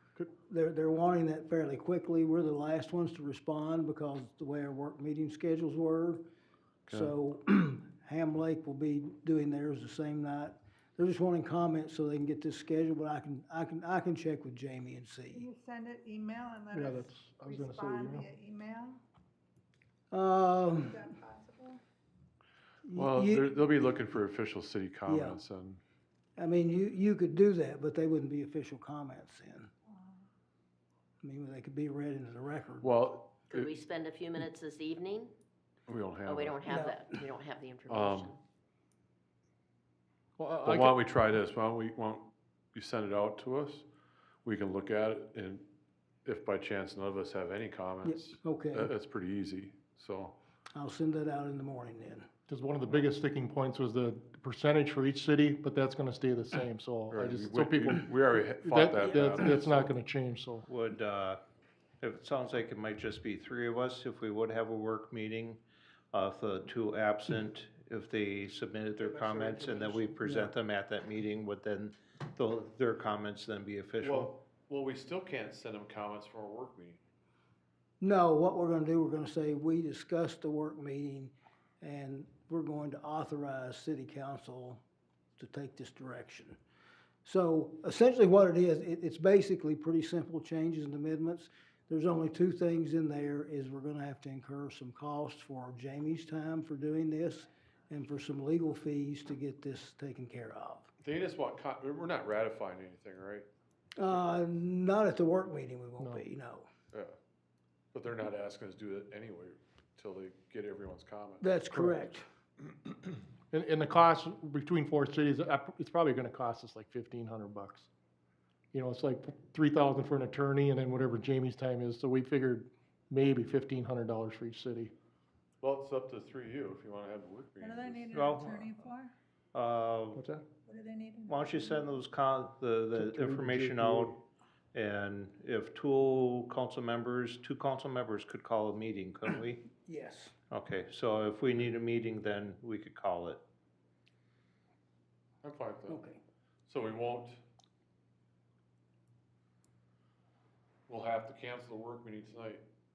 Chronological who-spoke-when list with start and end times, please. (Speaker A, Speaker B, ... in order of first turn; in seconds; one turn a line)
Speaker A: 0.5-6.2
Speaker B: 6.9-7.1
Speaker A: 6.9-15.4
Speaker C: 15.3-19.0
Speaker D: 16.7-18.3
Speaker A: 20.1-21.1
Speaker C: 20.9-21.8
Speaker A: 22.8-23.5
Speaker B: 22.9-25.8
Speaker A: 25.1-25.4
Speaker A: 26.4-29.7
Speaker C: 29.9-30.2
Speaker A: 31.2-33.0
Speaker B: 32.8-33.7
Speaker E: 33.5-35.3
Speaker B: 35.9-36.6
Speaker E: 36.2-38.4
Speaker A: 36.6-37.2
Speaker B: 37.9-38.3
Speaker D: 40.4-41.0
Speaker B: 40.5-43.9
Speaker B: 44.4-45.7
Speaker B: 46.2-50.4
Speaker A: 48.0-48.9
Speaker A: 50.7-52.3
Speaker D: 52.5-60.6
Speaker B: 57.1-60.0
Speaker F: 60.7-61.4
Speaker F: 62.0-65.6
Speaker F: 66.1-74.3
Speaker A: 69.3-70.5
Speaker B: 74.0-77.0
Speaker A: 78.0-84.8
Speaker A: 85.4-86.6
Speaker A: 87.2-100.9
Speaker B: 101.0-103.5
Speaker A: 104.0-106.7
Speaker B: 107.9-111.6
Speaker A: 111.4-112.3
Speaker D: 113.5-117.9
Speaker D: 118.7-124.9
Speaker B: 125.6-128.1
Speaker C: 127.6-129.1
Speaker F: 128.1-128.9
Speaker F: 129.5-130.2
Speaker D: 130.1-130.4
Speaker C: 130.7-131.9
Speaker F: 131.3-134.2
Speaker D: 133.1-134.1
Speaker F: 134.7-139.6
Speaker A: 139.8-140.3
Speaker F: 140.5-143.4
Speaker B: 145.4-146.0
Speaker A: 145.9-146.2
Speaker B: 146.7-147.4
Speaker B: 150.9-152.6